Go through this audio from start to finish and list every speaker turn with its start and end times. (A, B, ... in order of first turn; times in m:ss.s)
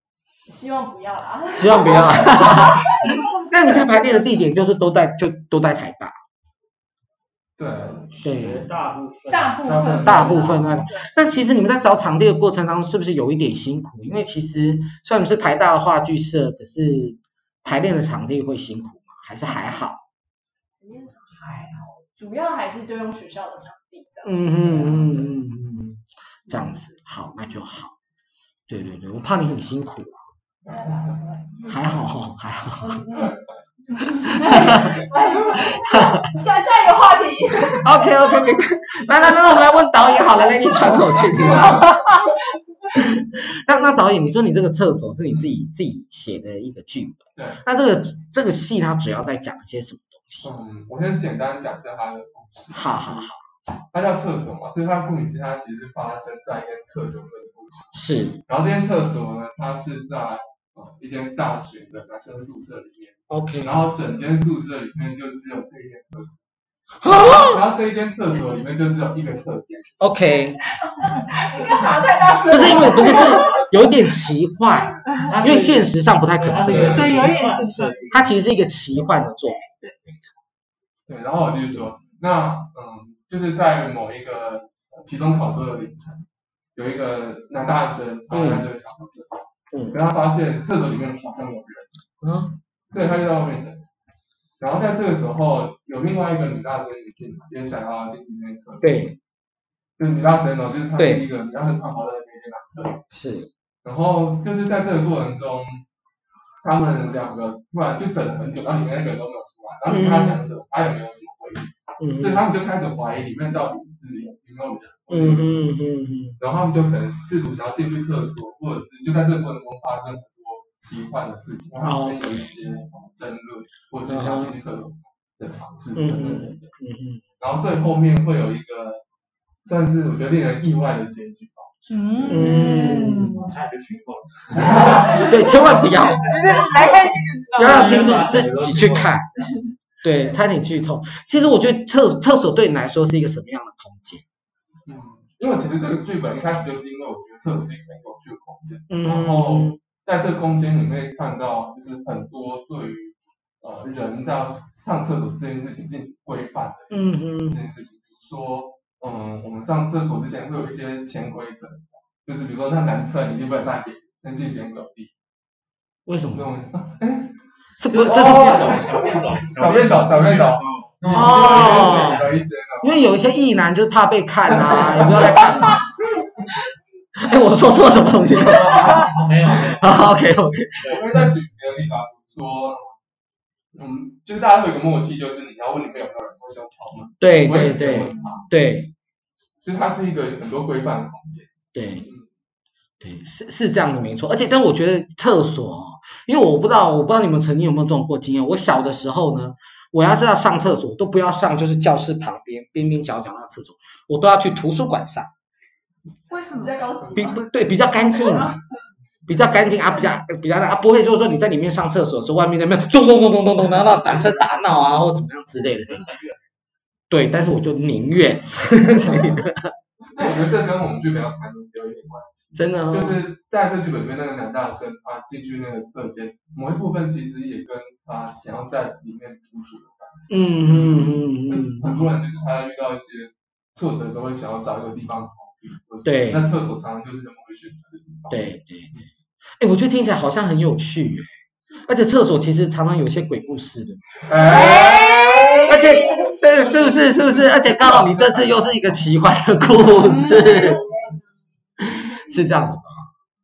0:00.5-0:03.9 A
0:01.6-0:06.2 B
0:07.6-0:08.1 C
0:07.8-0:10.8 D
0:08.2-0:08.7 B
0:09.3-0:10.6 E
0:09.6-0:10.8 C
0:10.0-0:20.0 B
0:20.8-0:25.3 A
0:24.2-0:28.0 B
0:28.7-0:30.2 B
0:30.7-0:31.7 A
0:31.7-0:33.0 B
0:32.8-0:33.4 A
0:34.0-0:38.4 A
0:34.2-0:34.9 B
0:37.8-0:42.0 B
0:40.5-0:41.2 A
0:41.3-0:41.9 C
0:42.9-0:50.5 B
0:47.4-0:47.6 C
0:50.4-0:53.3 C
0:52.7-0:53.4 B
0:53.9-0:57.9 C
0:57.9-0:58.4 B
0:58.5-1:06.4 C
1:03.3-1:03.8 B
1:07.0-1:07.6 B
1:07.2-1:10.0 C
1:10.0-1:10.6 B
1:11.0-1:13.7 A
1:12.5-1:17.2 B
1:12.7-1:13.4 E
1:15.1-1:15.4 E
1:15.2-1:18.3 D
1:16.5-1:17.1 C
1:16.6-1:18.1 E
1:18.1-1:19.6 B
1:21.1-1:32.0 C
1:28.3-1:28.7 B
1:29.7-1:30.0 B
1:32.2-1:32.6 B
1:32.9-1:33.8 C
1:34.6-1:39.0 C
1:38.8-1:39.2 B
1:40.0-1:43.0 C
1:41.0-1:41.2 B
1:43.1-1:43.5 B
1:43.8-1:45.8 C
1:46.6-1:55.6 C
1:49.9-1:50.4 B
1:52.0-1:52.4 B
1:55.1-1:56.4 B
1:56.4-2:06.7 C
2:01.8-2:02.5 B
2:04.1-2:04.6 B
2:06.0-2:07.2 B
2:07.4-2:09.0 C
2:09.6-2:12.4 C
2:11.9-2:13.5 E
2:12.2-2:15.3 D
2:12.3-2:13.4 B
2:14.6-2:15.3 C
2:15.1-2:16.3 B
2:16.2-2:18.4 E
2:17.6-2:19.3 B
2:17.6-2:19.4 D
2:20.0-2:24.2 B
2:24.9-2:45.1 C
2:28.9-2:29.8 B
2:36.9-2:37.6 B
2:46.1-2:46.5 B
2:46.3-2:47.4 C
2:47.8-2:48.8 B
2:47.9-2:52.4 D
2:47.9-2:53.0 C
2:51.1-2:52.2 B
2:52.8-2:56.0 B
2:54.5-2:55.5 C
2:57.2-2:59.1 B
2:58.3-3:00.0 D
2:59.8-3:01.2 B
3:00.9-3:02.9 C
3:03.8-3:08.4 C
3:07.2-3:08.9 B
3:09.6-3:11.5 C
3:11.7-3:12.1 B
3:13.0-3:25.3 B
3:26.3-3:27.1 E
3:26.5-3:27.4 A
3:27.1-3:28.5 B
3:29.3-3:36.0 B
3:35.9-3:36.4 D
3:37.1-3:39.7 B
3:40.2-3:59.0 C
3:42.6-3:43.2 B
3:50.3-3:52.1 B
3:56.0-3:56.5 B
3:58.3-3:59.1 B
3:59.6-4:01.3 B
4:01.8-4:04.2 B
4:04.3-4:05.7 C
4:04.5-4:05.8 E
4:04.5-4:06.4 A
4:05.7-4:10.8 B
4:06.5-4:08.7 C
4:10.0-4:10.8 E
4:10.3-4:11.0 A
4:11.8-4:13.1 B